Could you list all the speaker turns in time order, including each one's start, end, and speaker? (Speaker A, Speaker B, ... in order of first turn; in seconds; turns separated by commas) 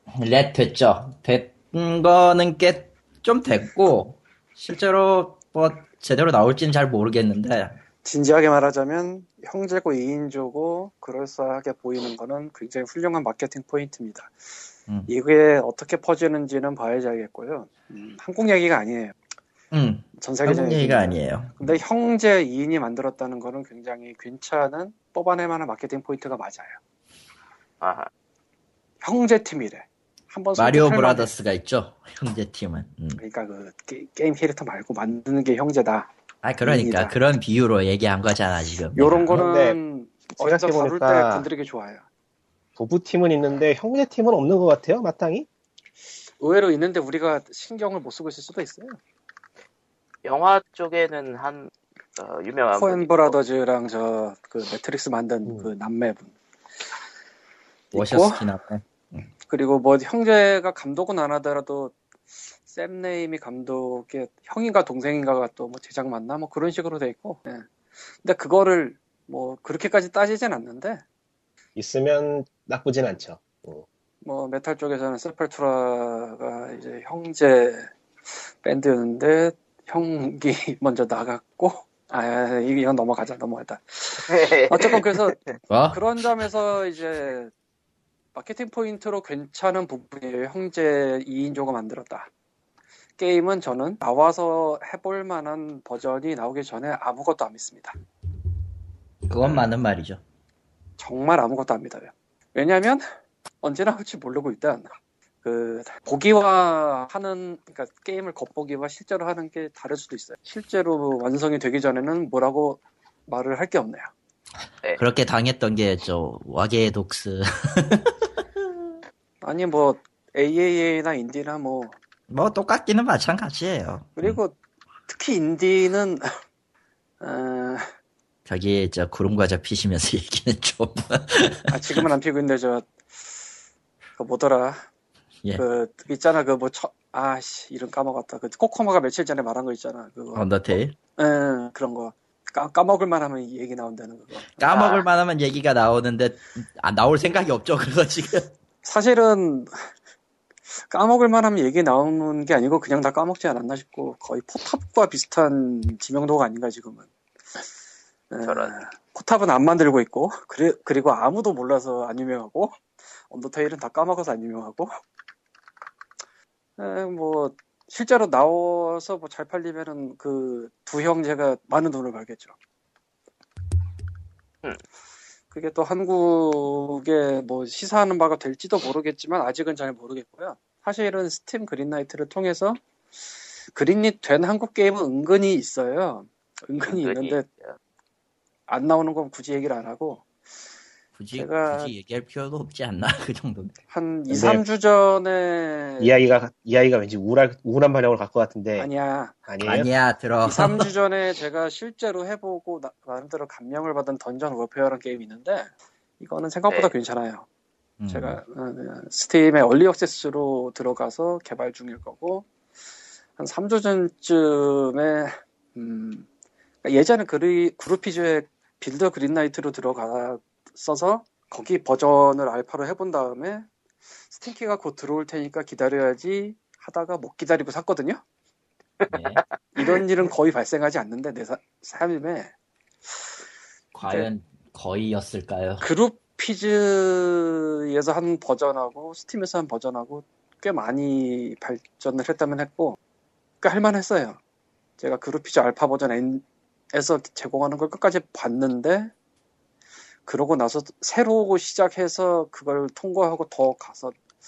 Speaker A: 0.2-7.8, Speaker B: 8.0-14.3, Speaker B: 15.1-19.1, Speaker A: 19.7-21.8, Speaker B: 20.2-26.8, Speaker C: 27.8-28.1, Speaker B: 29.0-31.3, Speaker A: 30.6-33.2, Speaker B: 33.2-36.1, Speaker A: 36.4-39.5, Speaker B: 36.6-37.1, Speaker B: 39.0-42.0, Speaker D: 39.3-39.8, Speaker D: 40.4-41.5, Speaker D: 42.8-45.5, Speaker B: 46.4-49.0, Speaker C: 50.2-53.4, Speaker B: 52.8-56.3, Speaker B: 57.9-58.4, Speaker A: 57.9-59.3, Speaker B: 59.5-62.0, Speaker B: 62.6-67.7, Speaker B: 68.2-71.0, Speaker D: 71.8-73.8, Speaker B: 74.2-77.9, Speaker B: 78.6-85.4, Speaker C: 84.2-85.5, Speaker A: 85.7-86.0, Speaker B: 85.9-87.5, Speaker B: 88.3-92.3, Speaker B: 93.2-97.9, Speaker A: 99.2-100.2, Speaker B: 101.0-103.0, Speaker B: 103.6-104.9, Speaker B: 105.4-114.1, Speaker A: 115.0-118.1, Speaker B: 119.4-122.0, Speaker A: 122.3-124.4, Speaker B: 124.2-124.5, Speaker B: 125.1-126.2, Speaker B: 127.2-127.8, Speaker A: 128.4-132.1, Speaker B: 131.7-132.9, Speaker B: 134.2-134.8, Speaker B: 135.6-144.9, Speaker A: 140.3-140.9, Speaker A: 144.6-148.5, Speaker C: 144.7-145.0, Speaker B: 148.8-149.7, Speaker B: 150.9-157.6, Speaker B: 158.3-164.9, Speaker C: 158.4-158.7, Speaker B: 166.8-172.5, Speaker B: 175.5-182.8, Speaker B: 183.7-187.5, Speaker C: 186.8-187.8, Speaker B: 188.7-190.2, Speaker A: 191.2-193.8, Speaker B: 191.3-191.9, Speaker B: 193.9-196.1, Speaker D: 194.3-194.6, Speaker D: 196.0-198.9, Speaker B: 198.8-199.3, Speaker D: 199.4-199.9, Speaker A: 199.6-200.9, Speaker B: 200.4-207.5, Speaker A: 208.0-208.4, Speaker B: 208.1-212.5, Speaker B: 213.4-216.2, Speaker B: 216.8-223.7, Speaker B: 224.3-228.2, Speaker C: 229.0-230.0, Speaker A: 229.1-229.4, Speaker B: 229.8-232.5, Speaker A: 233.9-235.9, Speaker B: 235.8-243.0, Speaker B: 243.6-244.4, Speaker B: 245.0-249.1, Speaker B: 250.2-254.2